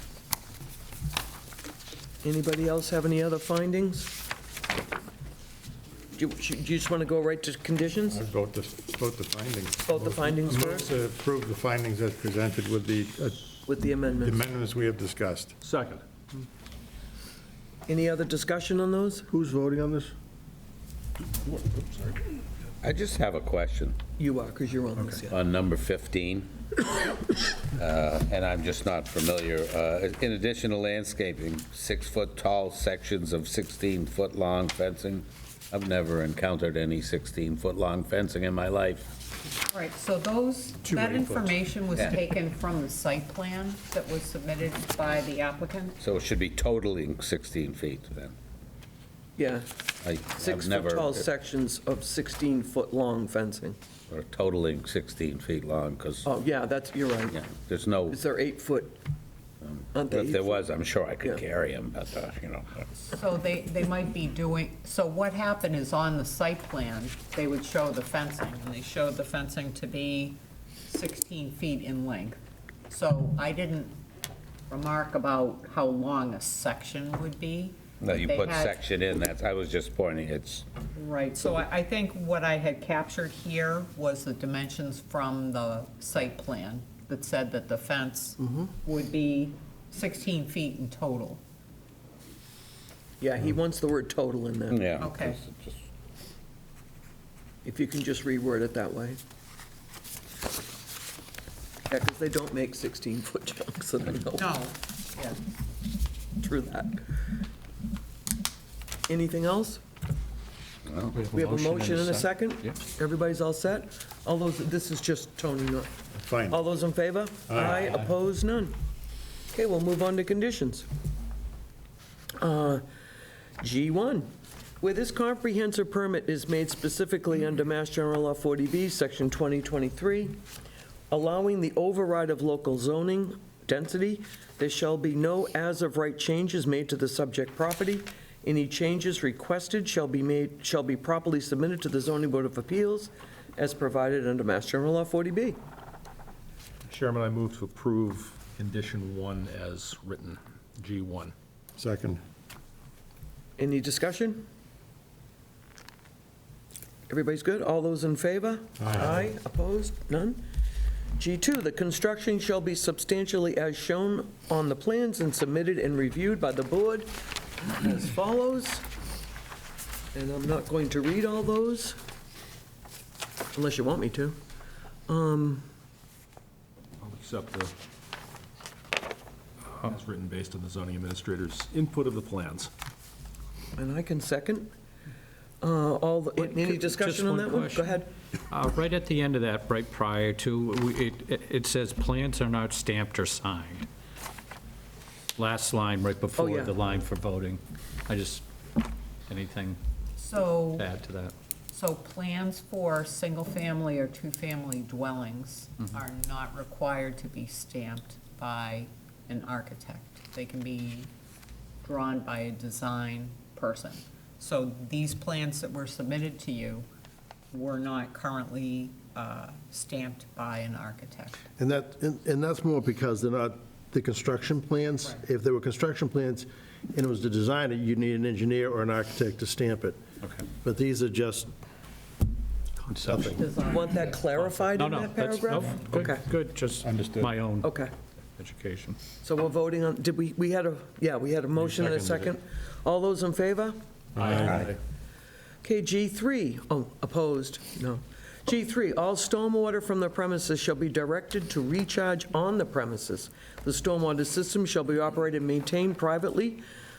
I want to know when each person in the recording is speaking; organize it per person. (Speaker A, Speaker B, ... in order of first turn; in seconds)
Speaker A: 2.2-4.2, 6.2-8.2, 9.9-10.9, 13.7-14.4, 17.9-19.3, 24.2-25.4, 49.4-49.7, 50.3-53.8, 56.2-57.4, 58.1-59.0, 59.9-60.6, 93.2-94.9, 97.7-99.2, 101.9-104.5, 106.4-107.3, 109.1-109.8, 111.3-115.9, 116.5-118.7, 119.5-120.9, 122.4-122.8, 123.6-130.4, 131.1-145.6, 153.6-154.4, 157.1-160.4, 161.2-168.8, 170.1-172.0, 173.5-174.4, 175.1-175.7, 183.8-184.7, 185.6-188.1, 196.4-196.9, 233.6-236.3, 237.6-237.9, 239.2-243.8, 245.6-256.6
Speaker B: 8.1-15.6, 40.8-41.6, 116.1-116.6, 117.5-117.8, 151.8-152.2, 158.8-159.3, 236.8-237.3, 241.6-242.3, 244.2-244.7
Speaker C: 15.6-16.0, 21.4-22.2, 146.9-151.3, 177.0-177.7, 179.8-182.7
Speaker D: 19.3-20.1, 221.6-231.5
Speaker E: 22.8-24.0, 25.3-26.5, 27.8-39.1, 46.0-48.3, 50.0-51.3, 54.1-56.3, 57.3-58.2, 59.6-62.9, 78.0-80.7, 94.7-95.7, 110.9-111.2
Speaker F: 39.6-46.0, 63.0-74.0, 74.7-78.8, 81.0-91.4, 95.0-95.4, 104.4-105.4, 200.2-200.9, 201.7-211.1, 211.8-216.9, 217.5-221.4, 233.2-234.2
Speaker G: 111.2-112.3, 186.4-193.9, 195.4-198.4, 199.3-199.8, 200.7-201.3, 232.8-233.4, 234.4-237.8, 238.4-239.0, 244.2-244.7